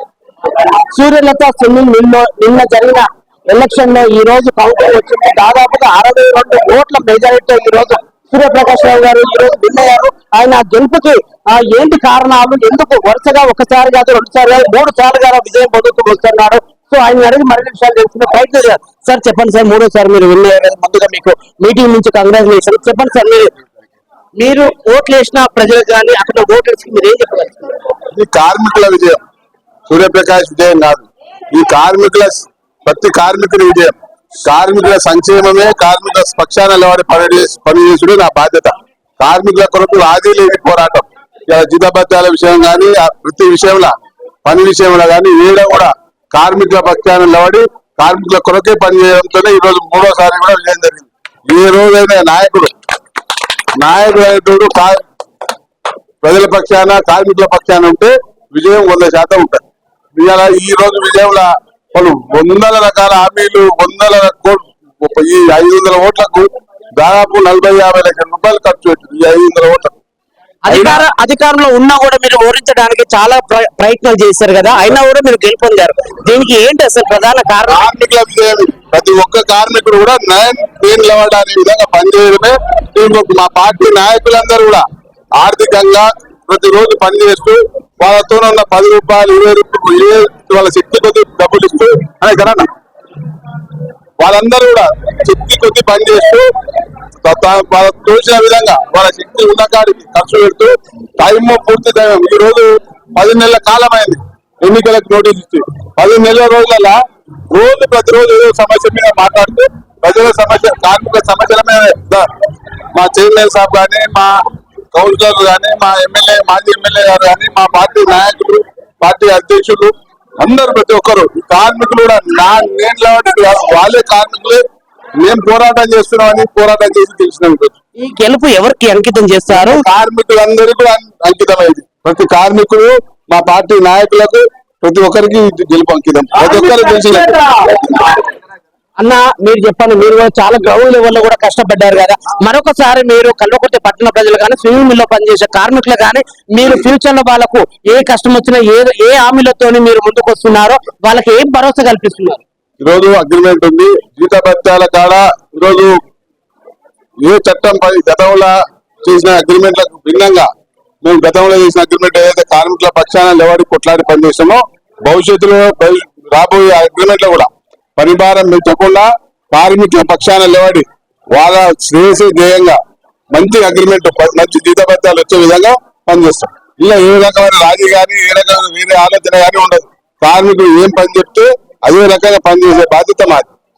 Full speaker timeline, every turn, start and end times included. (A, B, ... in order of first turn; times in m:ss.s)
0:00.9-0:23.5 A
0:24.4-0:27.8 A
0:28.1-0:29.2 B
0:29.9-0:43.9 B
0:44.4-0:52.7 B
0:53.8-0:55.0 B
0:56.2-0:59.6 B
1:00.2-1:10.0 B
1:10.7-1:17.8 A
1:10.7-1:11.0 B
1:17.7-1:24.8 B
1:25.4-1:32.7 B
1:34.2-1:36.5 B
1:37.2-1:47.0 B
1:47.5-1:52.3 B
1:53.0-1:54.4 B
1:54.9-2:04.6 B
2:05.2-2:07.8 B
2:08.0-2:09.8 A
2:09.5-2:17.4 B
2:16.3-2:18.3 A
2:19.0-2:32.4 A
2:32.8-2:36.0 B
2:37.2-2:40.5 B
2:41.0-2:52.8 B
2:53.3-3:03.5 B